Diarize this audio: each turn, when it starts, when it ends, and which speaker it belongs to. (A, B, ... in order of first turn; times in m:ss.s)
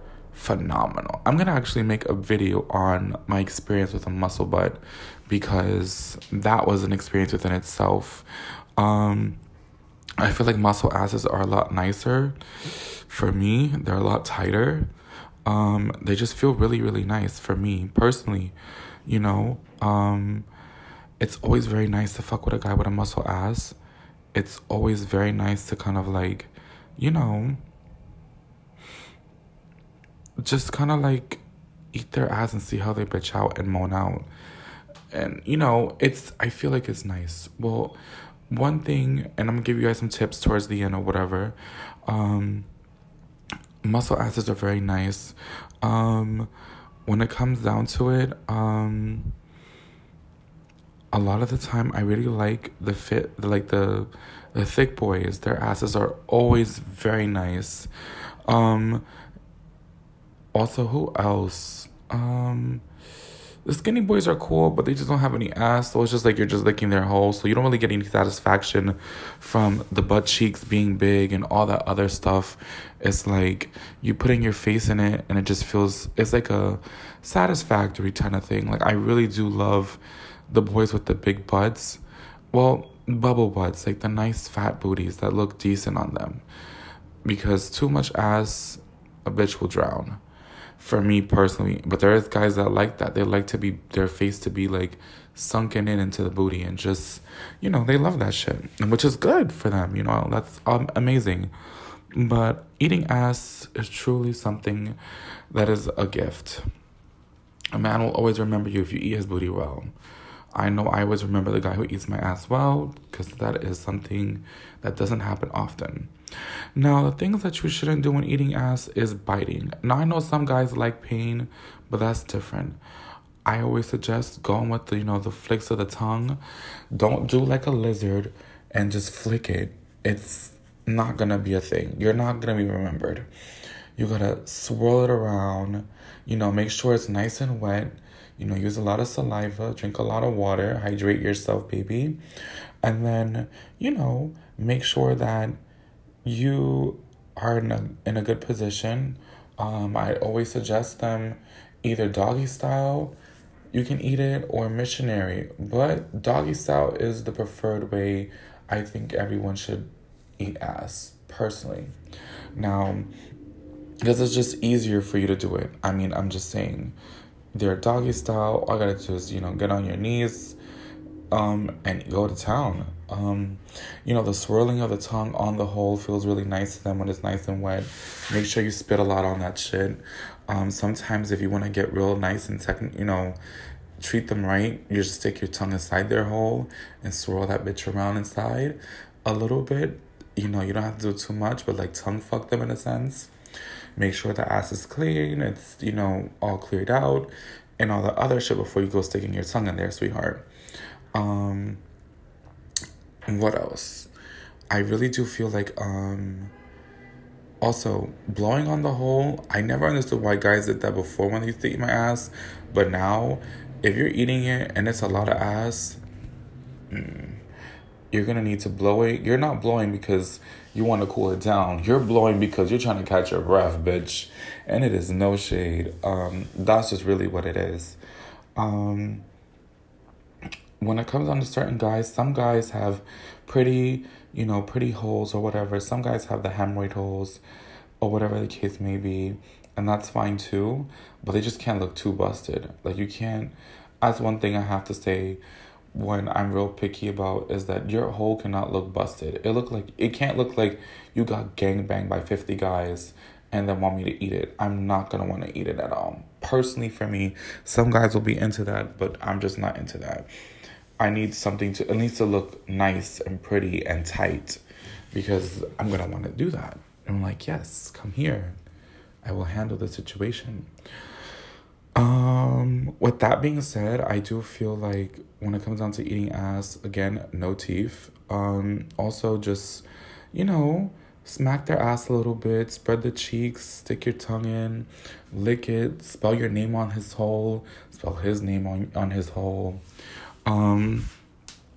0:00.3-0:08.2 A
0:08.8-0:09.4 A
0:10.2-0:14.9 A
0:15.4-0:20.5 A
0:21.2-0:23.8 A
0:24.3-0:27.6 A
0:30.4-0:34.3 A
0:35.1-0:38.0 A
0:38.5-0:42.7 A
0:43.8-0:46.5 A
0:47.0-0:49.4 A
0:51.1-0:57.9 A
0:58.4-0:59.0 A
1:00.5-1:02.8 A
1:03.6-1:26.4 A
1:27.2-1:30.2 A
1:30.8-1:41.5 A
1:42.1-1:45.0 A
1:45.5-1:46.6 A
1:47.7-1:49.9 A
1:50.5-1:56.1 A
1:56.7-2:02.8 A
2:03.4-2:06.4 A
2:06.9-2:13.3 A
2:14.0-2:22.2 A
2:22.8-2:25.6 A
2:26.2-2:33.1 A
2:33.7-2:41.9 A
2:42.5-2:43.1 A
2:44.0-2:47.0 A
2:47.5-2:50.6 A
2:51.3-3:03.4 A
3:04.0-3:13.3 A
3:14.0-3:20.4 A
3:21.1-3:21.8 A
3:23.3-3:24.1 A
3:24.7-3:26.5 A
3:27.6-3:36.0 A
3:36.9-3:37.4 A
3:38.1-3:48.0 A
3:48.6-3:49.2 A
3:50.8-3:57.4 A
3:58.0-4:05.4 A
4:05.9-4:20.3 A
4:21.0-4:24.6 A
4:25.1-4:28.6 A
4:29.2-4:30.7 A
4:32.0-4:49.8 A
4:50.4-4:51.1 A